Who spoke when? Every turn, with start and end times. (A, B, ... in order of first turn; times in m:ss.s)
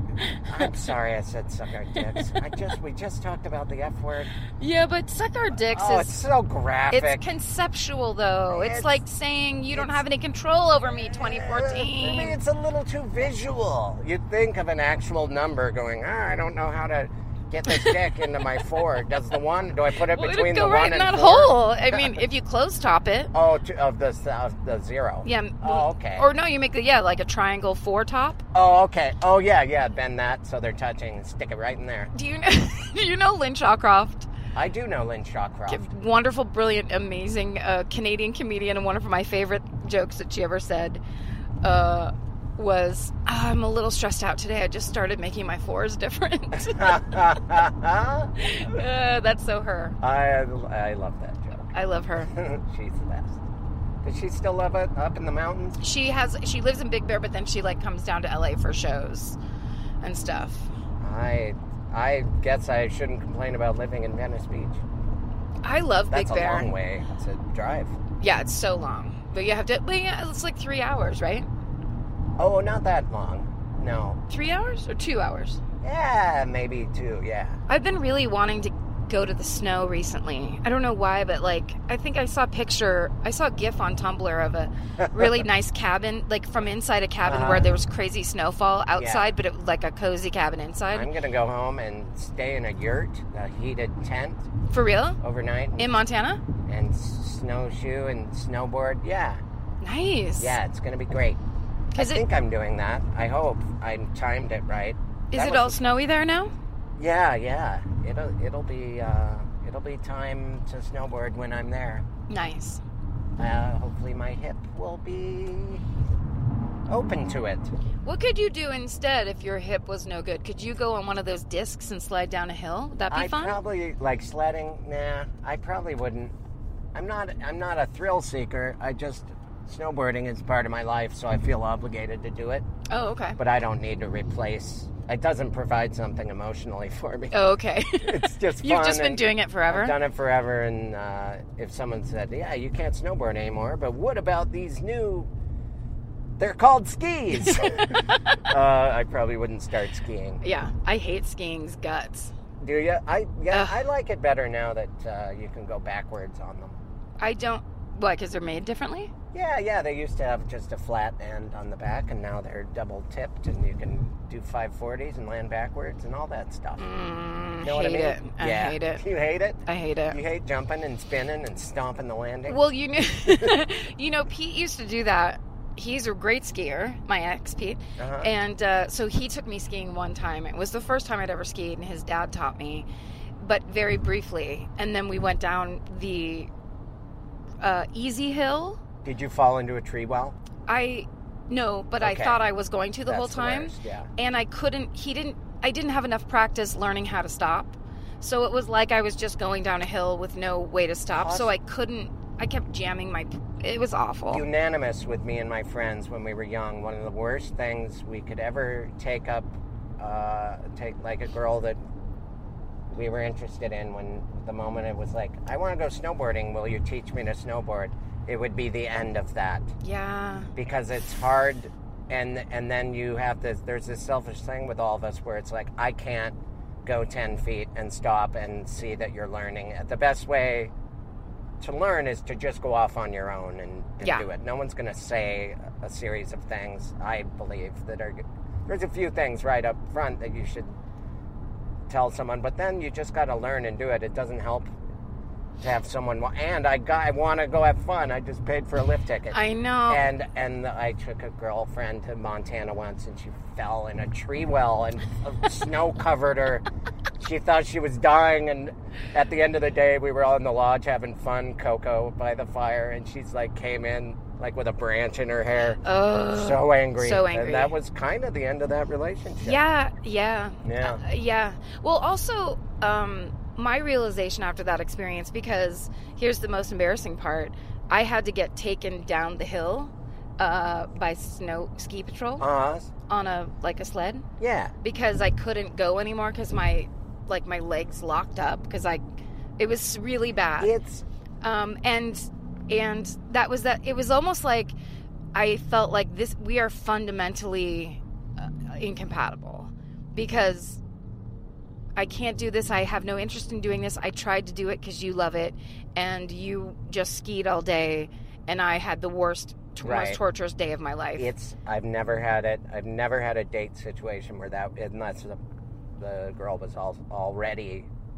0:00.4-0:04.3 A
0:04.6-0:06.2 B
0:05.7-0:07.2 A
0:06.9-0:12.4 B
0:08.5-0:09.0 A
0:11.0-0:22.1 A
0:20.0-0:23.3 B
0:23.3-0:26.3 A
0:25.2-0:28.4 B
0:28.5-0:32.1 A
0:32.1-0:34.3 B
0:34.5-0:35.9 A
0:35.7-0:41.0 B
0:41.6-0:47.4 B
0:46.6-0:48.8 A
0:48.4-0:50.0 B
0:50.0-0:51.7 A
0:51.7-0:52.3 B
0:52.3-0:53.4 A
0:54.0-0:55.8 A
0:55.8-0:59.4 B
1:00.0-1:00.7 B
1:01.0-1:04.8 A
1:05.6-1:06.7 B
1:06.1-1:08.0 A
1:08.2-1:11.5 B
1:12.4-1:14.2 A
1:14.3-1:15.6 B
1:15.8-1:17.6 A
1:17.7-1:31.1 B
1:25.0-1:25.4 A
1:27.2-1:27.7 A
1:29.0-1:29.3 A
1:30.9-1:34.5 A
1:34.7-1:35.2 B
1:35.2-1:35.9 A
1:35.8-1:36.4 B
1:36.6-1:39.4 A
1:39.8-1:40.6 B
1:40.4-1:41.4 A
1:41.9-1:42.2 B
1:41.9-1:45.8 A
1:45.3-1:46.5 B
1:47.0-1:52.0 A
1:52.3-1:52.8 B
1:53.4-1:55.8 A
1:56.9-1:57.7 A
1:58.0-2:03.6 B
2:03.1-2:06.3 A
2:06.9-2:12.6 A
2:12.9-2:13.4 B
2:13.4-2:17.4 A
2:17.3-2:20.0 B
2:18.0-2:25.3 A
2:26.4-2:30.4 A
2:27.4-2:28.4 B
2:30.4-2:32.3 B
2:32.6-2:36.8 A
2:33.5-2:33.8 B
2:37.2-2:39.1 B
2:39.3-2:46.9 A
2:46.8-2:49.0 B
2:47.6-2:52.6 A
2:49.6-2:50.2 B
2:52.4-3:02.8 B
2:53.2-2:53.6 A
2:58.0-2:58.3 A
3:03.4-3:06.5 B
3:07.6-3:08.8 B
3:09.0-3:10.3 A
3:10.7-3:24.4 B
3:12.0-3:12.4 A
3:13.0-3:14.1 A
3:21.2-3:21.5 A
3:24.3-3:31.8 A
3:32.9-3:39.7 A
3:39.8-3:40.5 B
3:40.5-3:50.7 A
3:51.6-4:00.8 A
4:01.9-4:04.7 A
4:05.6-4:16.6 A
4:09.3-4:10.0 B
4:17.2-4:29.6 A
4:25.8-4:27.8 B
4:29.4-4:42.5 B
4:30.6-4:31.0 A
4:42.4-4:42.9 A
4:43.1-4:44.2 B
4:44.4-4:44.7 A
4:44.8-4:49.0 B
4:49.6-4:50.7 B
4:50.6-4:51.0 A
4:51.4-4:54.7 B
4:55.3-5:00.8 B
5:02.0-5:11.3 B
5:09.8-5:10.2 A
5:11.2-5:15.4 A
5:16.0-5:17.9 A